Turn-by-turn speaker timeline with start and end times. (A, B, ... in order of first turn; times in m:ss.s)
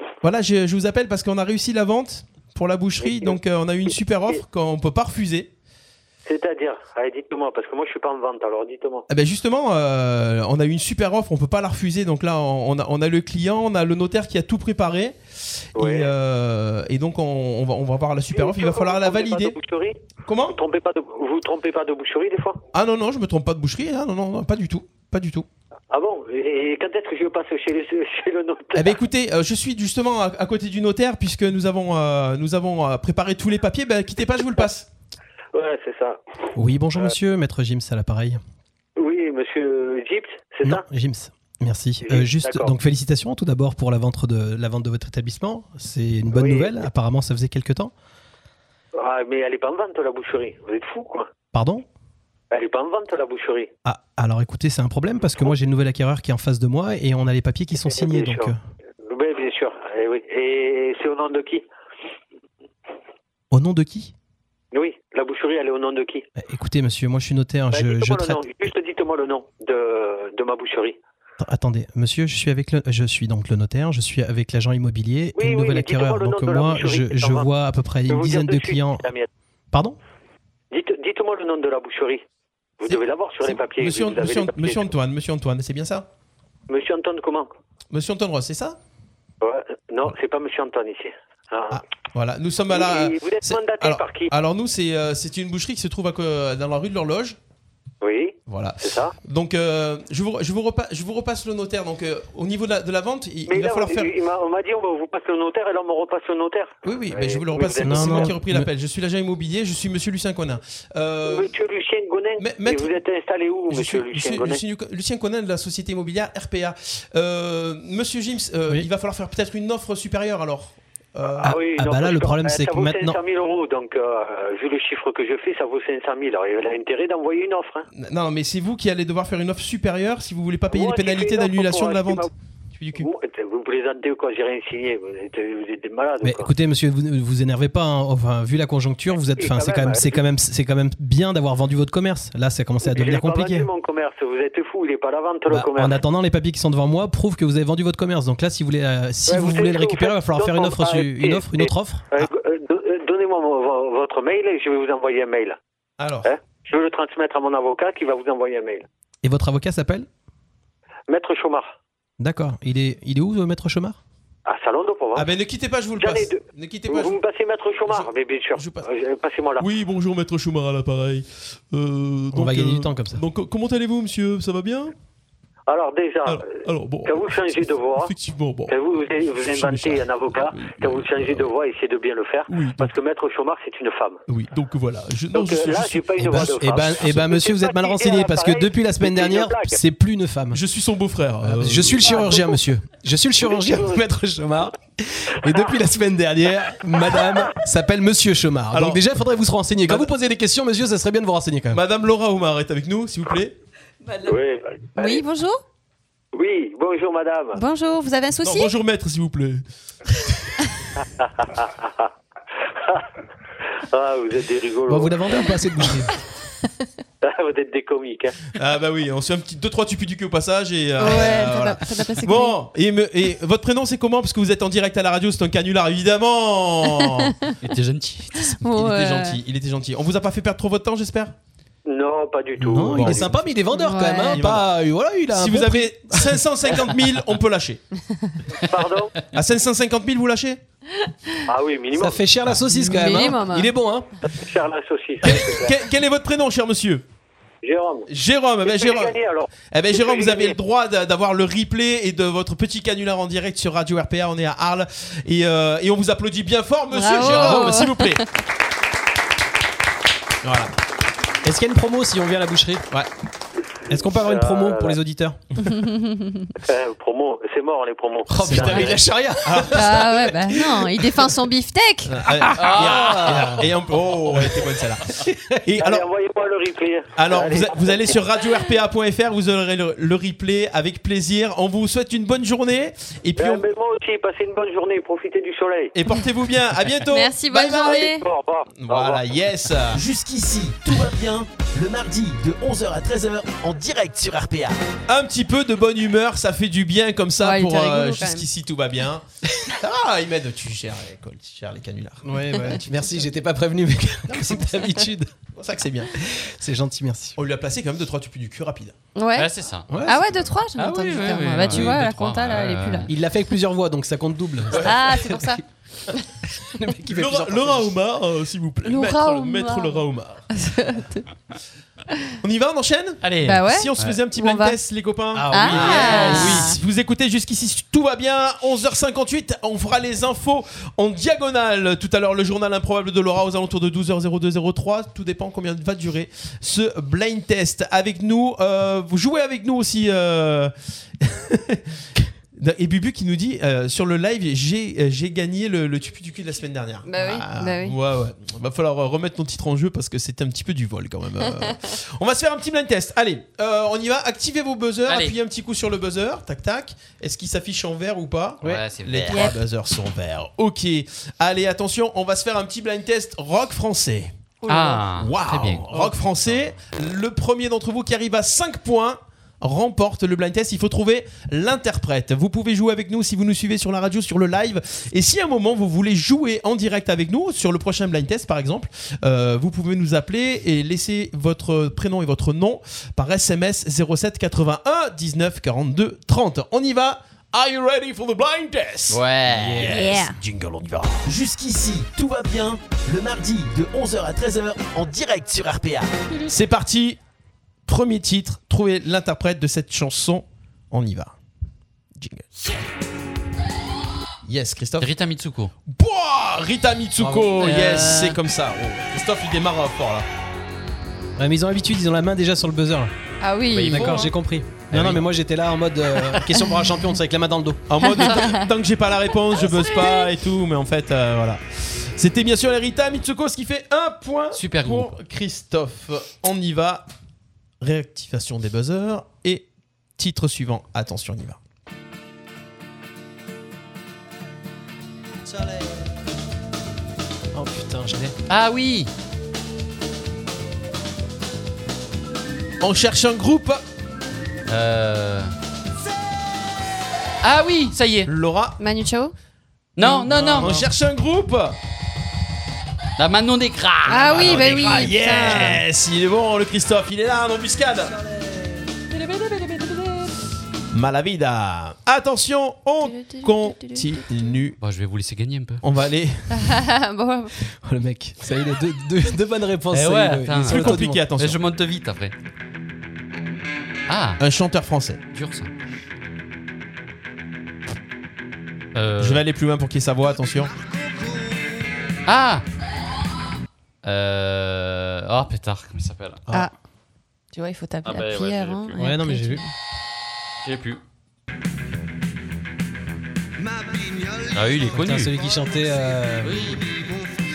0:00.2-0:05.5 A
0:03.0-0:03.4 B
0:06.2-0:09.0 B
0:09.1-0:19.6 A
0:15.8-0:16.1 B
0:18.3-0:20.0 B
0:20.3-0:20.6 A
0:20.5-0:22.6 B
0:22.7-0:25.5 A
0:25.9-0:29.0 B
0:28.8-0:34.9 A
0:35.5-0:36.2 B
0:36.6-0:38.4 C
0:39.0-0:40.8 B
0:40.6-0:47.9 C
0:42.0-0:42.7 B
0:46.3-0:46.8 B
0:49.0-0:51.3 B
0:51.5-0:51.9 C
0:52.5-0:53.7 B
0:53.8-0:58.6 C
0:57.8-0:58.5 B
0:59.0-1:01.6 B
1:03.5-1:04.1 C
1:04.7-1:06.2 B
1:06.4-1:08.5 C
1:07.7-1:11.0 B
1:11.4-1:19.1 C
1:15.4-1:17.5 B
1:18.1-1:19.3 B
1:19.7-1:20.0 C
1:20.7-1:22.2 B
1:22.8-1:24.9 B
1:22.9-1:26.1 A
1:26.7-1:27.5 B
1:27.9-1:28.8 A
1:29.4-1:31.8 B
1:31.7-1:37.4 A
1:32.7-1:34.3 B
1:38.0-1:39.2 B
1:38.5-1:44.1 A
1:43.5-1:48.3 B
1:46.8-1:51.5 A
1:47.8-1:48.7 C
1:51.2-1:54.6 B
1:52.4-1:53.0 A
1:53.7-2:01.6 A
2:01.4-2:07.9 B
2:01.5-2:03.2 C
2:07.9-2:13.1 A
2:10.7-2:12.3 B
2:12.9-2:16.5 B
2:16.2-2:23.7 C
2:19.2-2:20.2 B
2:22.8-2:26.0 B
2:25.5-2:32.3 C
2:29.3-2:35.6 B
2:36.0-2:36.3 A
2:36.2-2:38.9 B
2:39.2-2:40.1 C
2:41.1-2:41.8 B
2:42.2-2:44.0 C
2:44.5-2:45.3 B
2:45.2-2:47.2 A
2:46.0-2:49.7 B
2:47.9-2:48.9 A
2:49.6-2:54.9 A
2:52.3-2:53.2 C
2:55.7-2:58.1 B
2:56.3-2:58.8 A
2:58.7-3:04.2 B
2:59.4-3:01.5 A
3:02.5-3:02.9 A
3:04.3-3:06.5 A
3:05.3-3:09.8 B
3:06.2-3:10.6 C
3:10.5-3:12.2 A
3:11.4-3:21.8 C
3:12.0-3:12.6 B
3:13.4-3:14.0 B
3:18.7-3:19.0 A
3:19.9-3:20.1 A
3:21.7-3:23.6 A
3:24.2-3:25.2 B
3:25.0-3:25.6 D
3:26.3-3:27.6 B
3:27.6-3:28.7 D
3:28.4-3:30.3 A
3:31.0-3:32.1 B
3:32.8-3:33.1 B
3:33.9-3:35.4 B
3:34.9-3:36.1 C
3:37.2-3:38.4 B
3:38.6-3:47.4 A
3:41.0-3:42.6 D
3:47.6-3:48.6 E
3:48.5-3:49.4 D
3:48.6-3:51.4 A
3:51.9-3:53.3 B
3:52.6-3:56.4 C
3:52.8-3:53.5 A
3:53.7-3:54.4 D
3:54.3-3:54.7 A
3:55.3-3:57.8 A
3:58.6-3:59.2 B
3:59.3-4:00.6 A
4:01.5-4:02.2 B
4:02.0-4:04.1 C
4:02.7-4:03.7 D
4:04.3-4:05.8 B
4:05.2-4:07.0 A
4:07.6-4:08.1 B
4:08.1-4:18.2 A
4:08.6-4:10.6 B
4:16.9-4:18.2 D
4:20.4-4:20.7 A
4:21.4-4:22.9 C
4:23.9-4:25.4 C
4:23.9-4:25.0 B
4:25.6-4:26.5 D
4:26.6-4:29.1 B
4:28.3-4:31.0 C
4:28.4-4:30.4 A
4:29.8-4:32.2 D
4:32.1-4:36.1 A
4:32.2-4:33.7 C
4:32.6-4:33.6 E
4:35.1-4:35.6 C
4:35.8-4:38.2 B
4:37.2-4:43.7 A
4:43.4-4:46.0 B
4:45.9-4:48.2 A
4:47.1-4:48.2 D
4:47.9-4:49.2 B
4:48.8-4:50.0 A
4:49.9-4:54.8 F
4:55.1-5:03.0 A
4:57.4-4:58.4 D
5:02.2-5:05.3 C
5:04.3-5:06.1 A
5:06.2-5:07.4 C
5:07.4-5:09.0 A
5:09.2-5:09.5 D
5:09.4-5:09.9 E
5:09.9-5:10.2 C
5:10.0-5:13.1 D
5:10.8-5:13.1 E
5:11.7-5:12.0 C
5:13.1-5:15.5 C
5:14.7-5:15.3 A
5:14.7-5:15.6 D
5:16.6-5:17.9 C
5:17.1-5:20.5 A
5:18.8-5:20.0 D
5:20.6-5:21.2 D
5:22.4-5:41.8 A
5:23.2-5:24.2 E
5:23.4-5:24.8 D
5:25.3-5:26.8 C
5:25.5-5:26.8 D
5:25.8-5:26.5 E
5:42.6-6:04.4 A
5:47.1-5:48.0 D
5:55.1-5:55.4 E
5:58.6-5:59.5 E
5:59.3-5:59.6 D
6:04.6-6:05.0 D
6:04.7-6:05.9 E
6:05.1-6:31.3 A
6:05.9-6:06.2 C
6:29.1-6:30.0 E
6:29.5-6:30.0 C
6:29.9-6:30.4 D
6:31.2-6:36.1 F
6:36.5-6:37.2 A
6:37.9-6:41.4 A
6:42.2-6:42.9 A
6:44.4-6:45.1 A
6:45.0-6:45.7 E
6:45.9-6:50.3 A
6:47.2-6:48.2 C
6:47.6-6:48.3 E
6:51.4-6:53.1 C
6:53.4-6:54.3 D
6:53.7-6:54.3 E
6:53.9-6:57.8 C
6:54.9-6:55.2 E
6:57.9-7:07.1 A
6:58.0-6:58.7 D
6:59.6-7:00.3 D
7:04.6-7:05.2 E
7:07.8-7:09.7 A
7:10.2-7:11.6 A
7:17.5-7:18.4 C
7:18.5-7:19.1 E
7:22.8-7:23.8 A
7:24.7-7:25.5 E
7:27.4-7:28.3 E
7:28.2-7:28.8 A
7:28.8-7:29.3 D
7:30.0-7:30.8 E
7:30.0-7:30.3 D
7:30.3-7:30.8 C
7:30.4-7:31.8 A
7:33.2-7:35.1 E
7:34.1-7:35.8 D
7:34.1-7:38.2 A
7:40.9-7:44.8 A
7:43.0-7:44.4 D
7:44.8-7:45.8 E
7:45.8-7:46.7 A
7:46.5-7:47.5 D
7:47.8-7:51.2 C
7:49.9-7:52.3 E
7:50.6-7:51.6 A
7:54.1-7:54.4 E
7:54.4-7:55.2 A
7:55.3-7:55.7 E
7:59.0-7:59.4 E
7:59.2-8:00.7 A
8:02.3-8:02.6 E
8:04.0-8:06.4 E
8:07.5-8:09.7 D
8:08.0-8:09.0 E
8:09.0-8:09.6 C
8:10.6-8:11.0 E
8:14.5-8:15.3 E
8:14.9-8:16.6 C
8:16.4-8:17.0 E